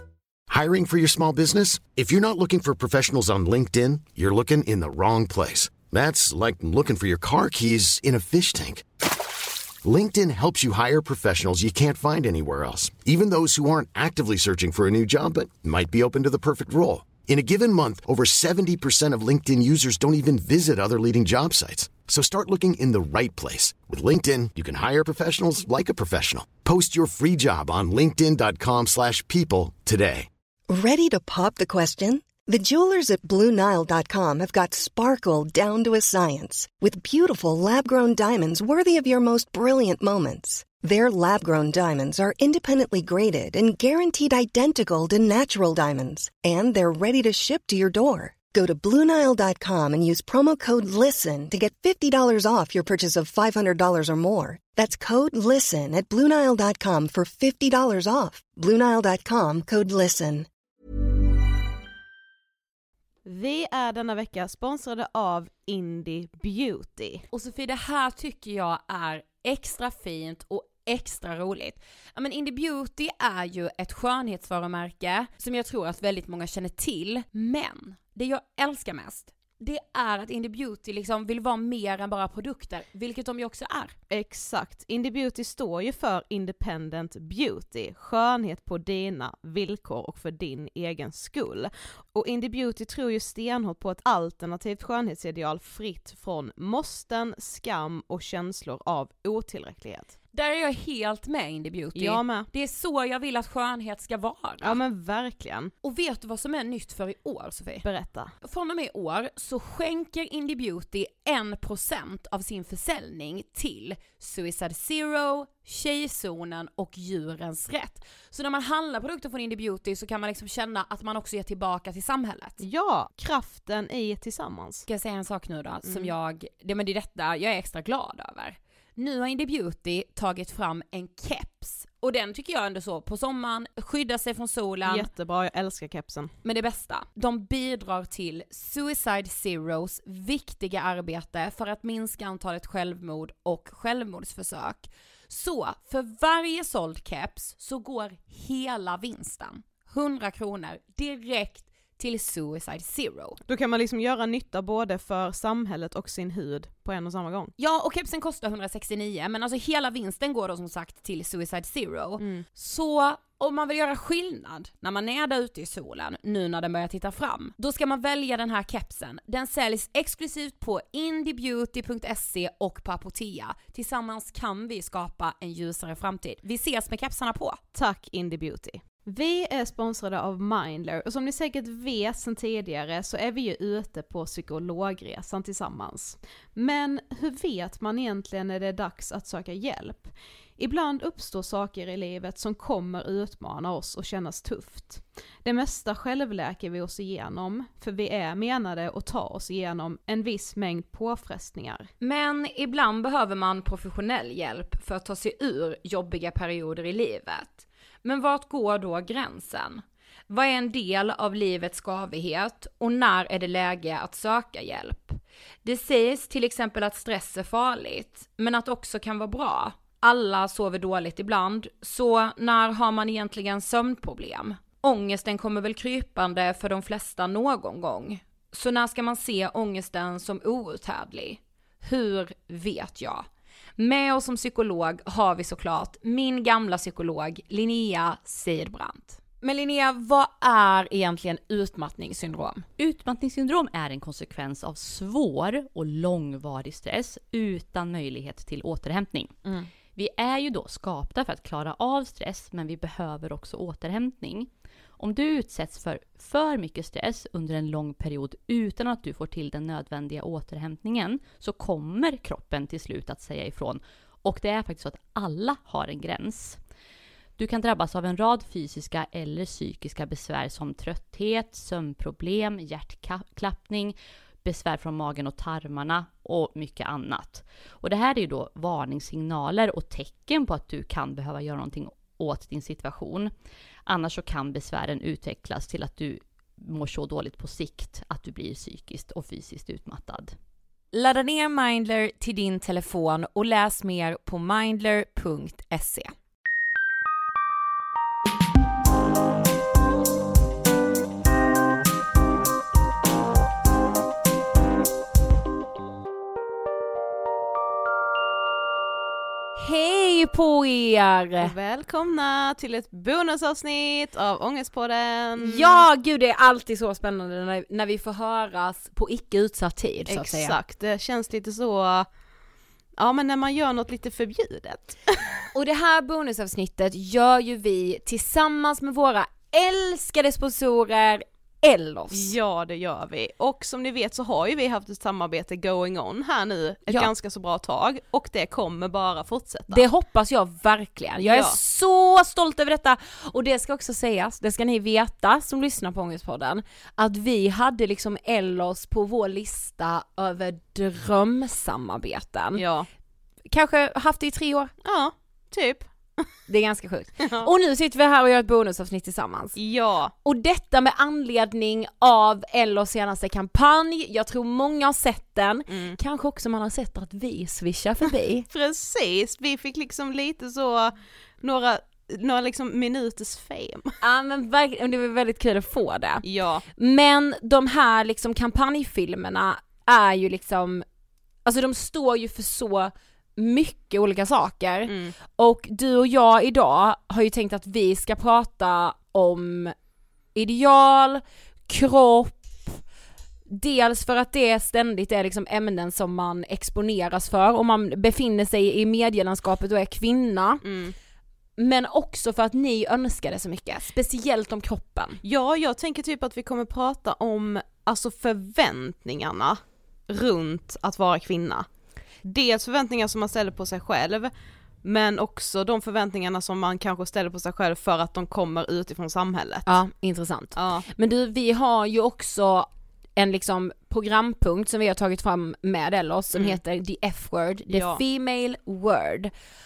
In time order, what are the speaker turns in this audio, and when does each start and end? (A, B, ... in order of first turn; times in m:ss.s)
0:00.5-0:08.8 A
0:09.8-0:30.3 A
0:30.7-1:00.5 B
1:03.2-1:07.2 C
1:07.3-1:24.0 D
1:24.1-1:40.1 C
1:40.3-1:44.8 D
1:42.0-1:42.5 C
1:44.6-1:45.7 C
1:45.8-1:47.8 D
1:47.8-1:48.3 C
1:48.4-2:02.6 D
2:02.6-2:04.9 C
2:04.9-2:15.1 D
2:05.9-2:06.1 C
2:14.9-2:16.3 C
2:16.4-2:33.4 D
2:33.5-2:37.5 C
2:37.6-2:57.6 D
2:42.2-2:42.5 C
2:57.7-3:21.9 C
3:22.0-3:53.3 D
3:53.8-4:02.7 D
4:02.8-4:09.4 E
4:09.9-4:26.6 E
4:27.4-4:43.3 E
4:43.9-4:50.4 E
4:50.9-4:56.1 D
5:09.6-5:11.5 D
5:11.4-5:15.8 C
5:15.4-5:20.6 D
5:20.1-5:22.1 C
5:23.0-5:25.2 C
5:25.5-5:32.4 D
5:32.1-5:39.8 C
5:39.7-5:52.6 D
5:41.2-5:41.6 C
5:52.6-5:52.9 C
5:53.5-5:54.7 D
5:54.8-5:56.3 C
5:56.5-5:59.6 D
5:57.2-5:57.5 C
5:59.6-6:00.1 C
6:00.2-6:08.5 D
6:05.7-6:06.0 C
6:08.5-6:14.0 C
6:14.0-6:16.2 D
6:16.2-6:16.6 C
6:16.8-6:20.8 D
6:21.4-6:29.8 D
6:24.9-6:25.2 C
6:30.4-6:32.8 D
6:33.5-6:40.6 D
6:40.6-6:41.0 C
6:41.6-6:45.2 D
6:45.2-6:51.7 C
6:52.2-6:54.3 C
6:54.8-6:59.7 C
6:59.7-7:09.3 D
7:00.6-7:00.9 C
7:07.7-7:08.0 C